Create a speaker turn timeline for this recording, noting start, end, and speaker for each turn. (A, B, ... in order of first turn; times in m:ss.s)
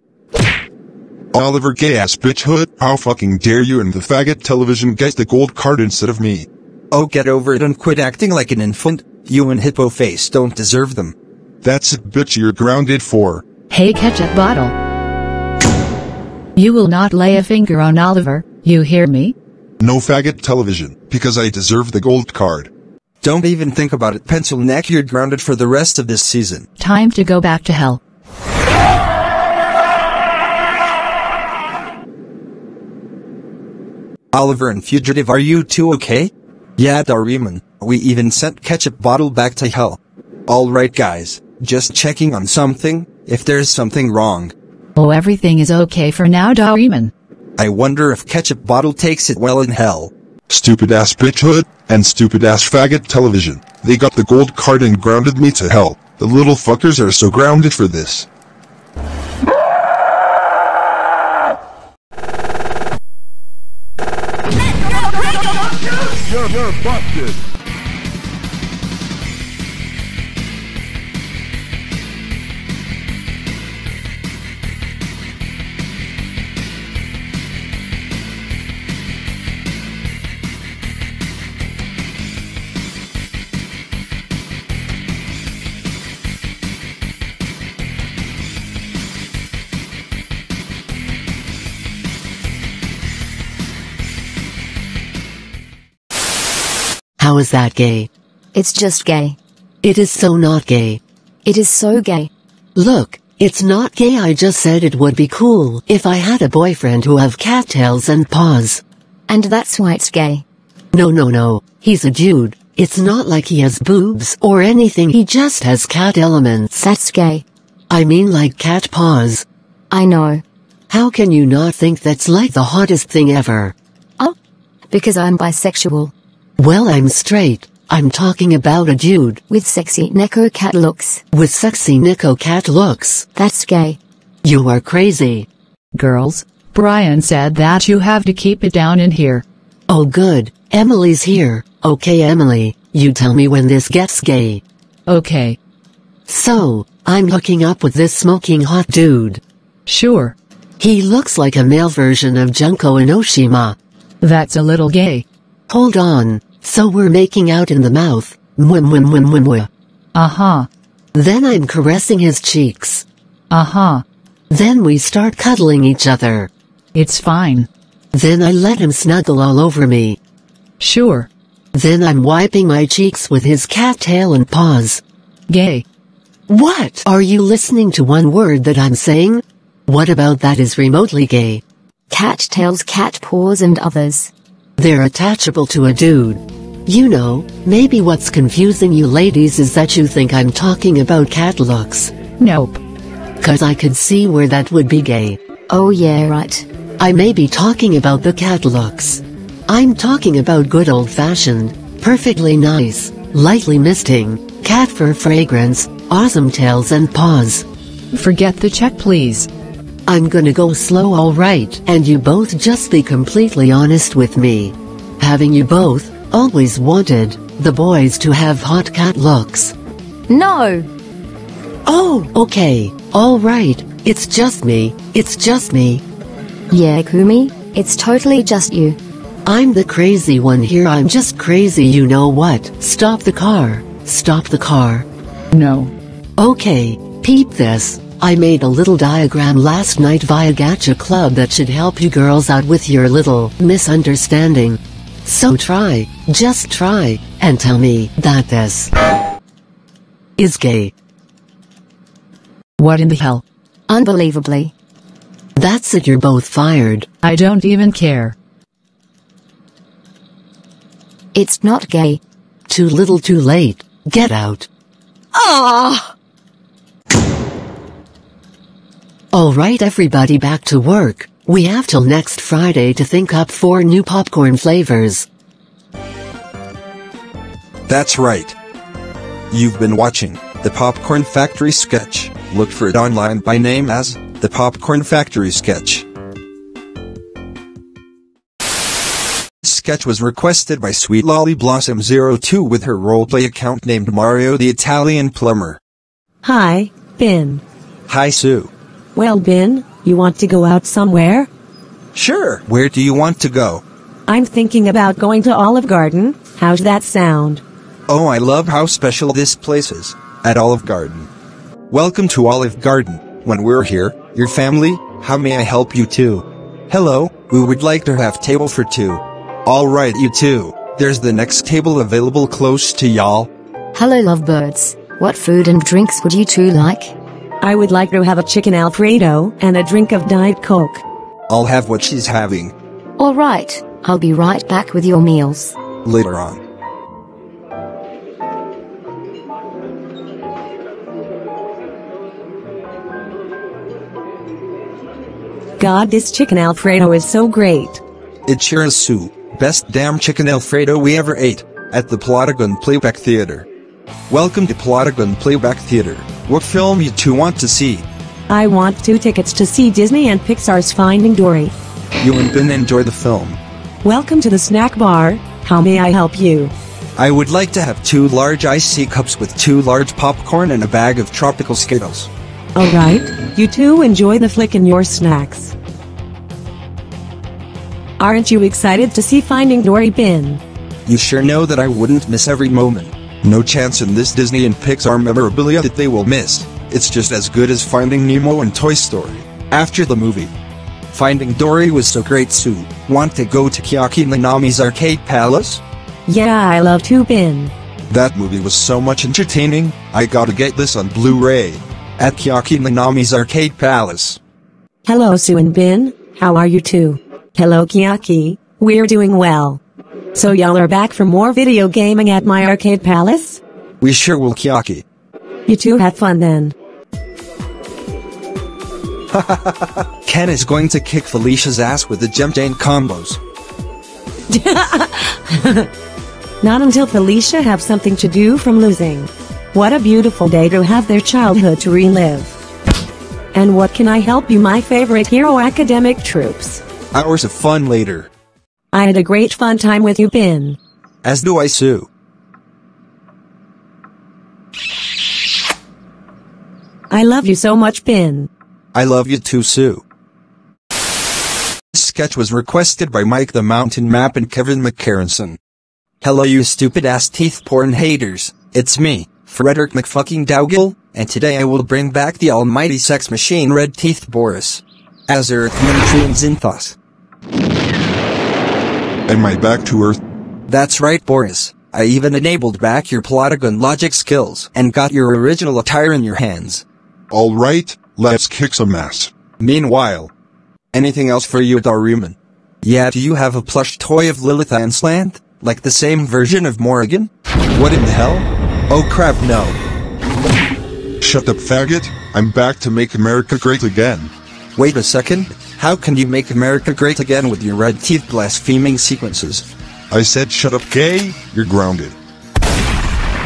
0:01.3-0:06.5 A
0:06.9-0:11.2 B
0:11.6-0:13.4 A
0:13.7-0:14.8 C
0:16.6-0:19.4 C
0:19.8-0:22.7 A
0:23.2-0:26.7 B
0:26.8-0:28.0 C
0:34.3-0:44.5 B
0:45.0-0:47.1 C
0:47.6-0:50.1 B
0:50.5-0:58.3 A
1:37.2-1:38.1 D
1:38.5-1:39.4 E
1:39.8-1:41.0 D
1:41.5-1:42.3 E
1:42.8-1:48.8 D
1:49.3-1:50.4 E
1:50.9-1:56.8 D
1:56.8-1:57.4 E
1:57.9-1:59.4 D
1:59.9-2:00.4 E
2:00.9-2:03.8 D
2:04.9-2:06.1 E
2:06.6-2:09.4 D
2:09.5-2:11.2 E
2:11.3-2:13.3 D
2:13.4-2:14.0 E
2:14.4-2:15.5 D
2:15.9-2:19.4 C
2:19.9-2:24.6 D
2:25.1-2:25.6 C
2:26.3-2:29.4 D
2:29.9-2:30.4 C
2:30.8-2:33.8 D
2:34.2-2:35.3 C
2:35.7-2:39.7 D
2:40.2-2:40.7 C
2:41.1-2:43.0 D
2:43.5-2:44.0 C
2:44.5-2:46.5 D
2:46.9-2:47.7 C
2:48.1-2:50.2 D
2:50.8-2:51.3 C
2:51.7-2:55.0 D
2:55.5-2:55.8 C
2:56.5-3:01.6 D
3:02.1-3:04.3 E
3:04.8-3:12.1 D
3:12.4-3:12.8 C
3:13.4-3:15.4 D
3:15.7-3:16.7 E
3:17.0-3:27.7 D
3:28.1-3:29.5 C
3:30.1-3:39.7 D
3:40.3-3:40.9 E
3:41.9-3:46.0 D
3:46.7-3:49.0 E
3:49.4-3:55.1 D
3:55.5-3:55.9 C
3:56.4-4:08.9 D
4:10.4-4:10.9 D
4:12.8-4:13.4 C
4:13.9-4:14.7 E
4:15.6-4:17.1 D
4:17.2-4:18.4 C
4:21.3-4:22.2 E
4:22.7-4:24.7 D
4:25.3-4:26.1 E
4:29.3-4:35.3 D
4:37.9-4:38.6 B
4:39.5-4:46.1 B
4:49.6-4:55.8 B
4:56.4-4:57.6 F
4:58.1-4:58.7 B
4:59.2-5:01.5 F
5:02.2-5:03.8 B
5:04.3-5:07.6 F
5:08.1-5:11.3 B
5:11.9-5:23.5 B
5:23.9-5:27.1 E
5:27.6-5:31.0 F
5:31.5-5:32.7 B
5:33.2-5:35.8 E
5:36.0-5:36.6 B
5:45.8-5:48.0 F
5:48.5-5:53.7 B
5:54.3-5:58.1 B
5:58.5-6:01.7 F
6:02.2-6:03.6 B
6:04.0-6:06.7 F
6:07.2-6:12.3 B
6:12.8-6:15.8 F
6:18.2-6:20.6 F
6:21.1-6:30.5 B
6:31.1-6:35.8 B
6:36.3-6:37.7 F
6:38.1-6:41.6 B
6:40.2-6:41.8 A
6:42.2-6:44.4 B
6:45.1-6:49.8 F
6:50.3-6:53.6 F
6:54.0-6:55.0 B
6:55.7-6:56.7 F
6:59.3-7:03.4 B
7:04.5-7:05.9 F
7:06.6-7:12.6 F
7:13.5-7:16.8 F
7:17.1-7:18.3 B
7:18.9-7:20.8 F
7:21.2-7:22.1 B
7:27.1-7:28.5 F
7:29.0-7:30.0 B
7:31.9-7:35.6 B
7:36.2-7:47.0 B
7:49.3-7:50.2 A
7:50.7-7:56.8 B
7:57.3-7:59.3 A
7:59.6-8:00.3 B
8:00.9-8:09.8 B
8:11.2-8:14.3 A
8:14.8-8:19.7 B
8:20.1-8:22.2 A